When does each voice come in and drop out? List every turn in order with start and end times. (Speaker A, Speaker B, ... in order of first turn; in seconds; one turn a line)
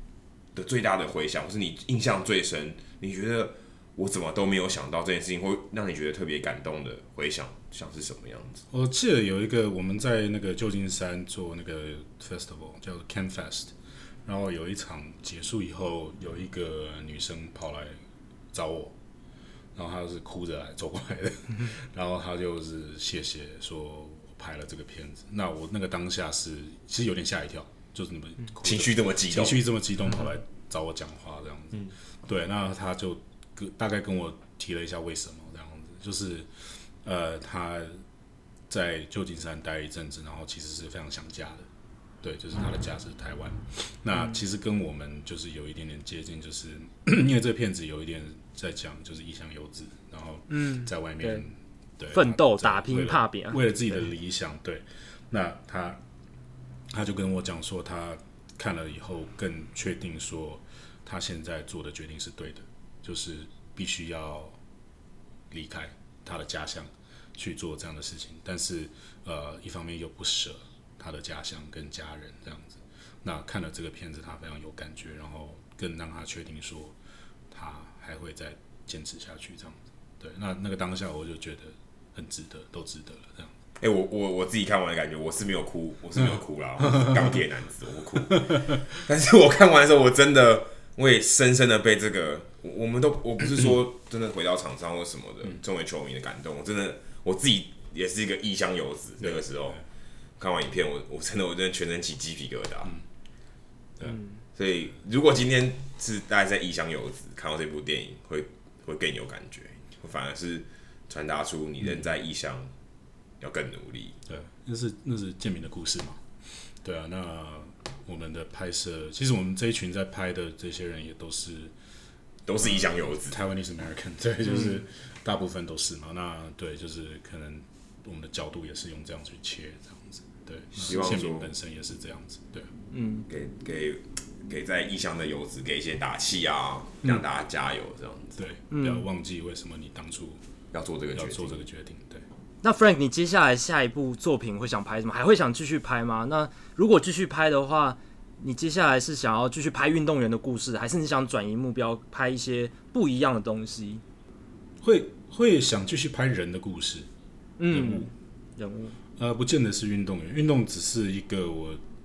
Speaker A: 0.6-8.6
Speaker B: 8.7-13.7
Speaker B: 14.2-18.0
Speaker B: 18.5-18.9
Speaker B: 19.8-38.0
Speaker A: 28.6-29.6
Speaker B: 38.7-41.7
Speaker B: 42.2-56.0
Speaker C: 50.5-51.4
Speaker C: 52.1-53.7
Speaker B: 56.9-64.6
Speaker B: 65.5-77.0
Speaker B: 77.5-83.5
Speaker A: 83.8-99.8
Speaker B: 99.2-99.8
Speaker A: 100.4-103.0
Speaker A: 104.6-112.7
Speaker A: 113.4-114.2
Speaker B: 114.3-121.7
Speaker A: 122.5-123.4
Speaker B: 122.6-132.7
Speaker C: 124.5-124.8
Speaker A: 130.8-131.5
Speaker C: 132.9-133.3
Speaker A: 133.3-138.3
Speaker B: 138.4-140.4
Speaker C: 138.7-139.1
Speaker A: 140.7-141.6
Speaker B: 141.1-142.2
Speaker C: 142.6-154.0
Speaker B: 154.8-157.1
Speaker C: 157.6-159.0
Speaker B: 157.7-158.1
Speaker B: 159.2-161.8